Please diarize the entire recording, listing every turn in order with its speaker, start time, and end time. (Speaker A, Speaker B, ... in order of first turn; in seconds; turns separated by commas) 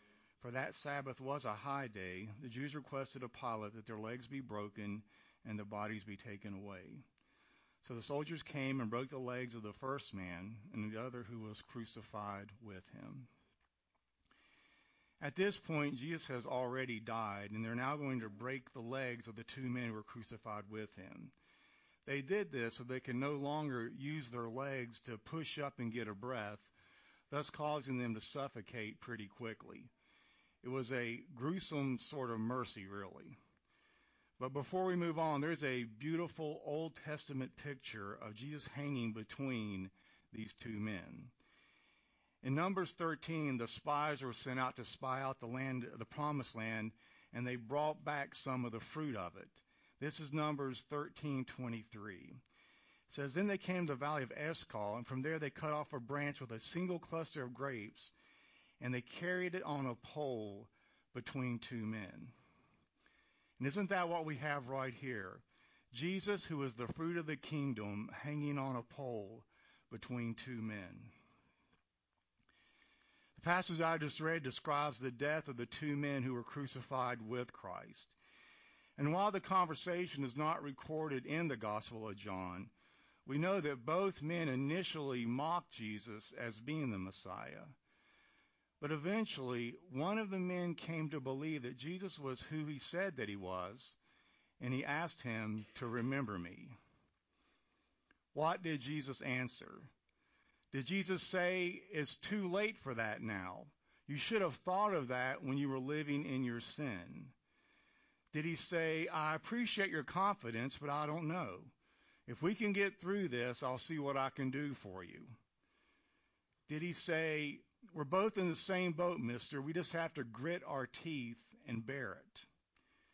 Speaker A: 0.4-7.0, Speaker A: 7.8-13.3, Speaker A: 15.2-21.3, Speaker A: 22.1-26.7, Speaker A: 27.3-29.9, Speaker A: 30.6-33.4, Speaker A: 34.4-41.3, Speaker A: 42.4-52.4, Speaker A: 53.1-58.1, Speaker A: 58.8-62.3, Speaker A: 63.6-71.1, Speaker A: 73.3-78.2, Speaker A: 79.0-82.7, Speaker A: 83.2-87.8, Speaker A: 88.8-94.0, Speaker A: 94.6-96.8, Speaker A: 98.3-99.9, Speaker A: 100.7-107.3, Speaker A: 108.3-111.7, Speaker A: 112.3-115.3, Speaker A: 116.7-122.5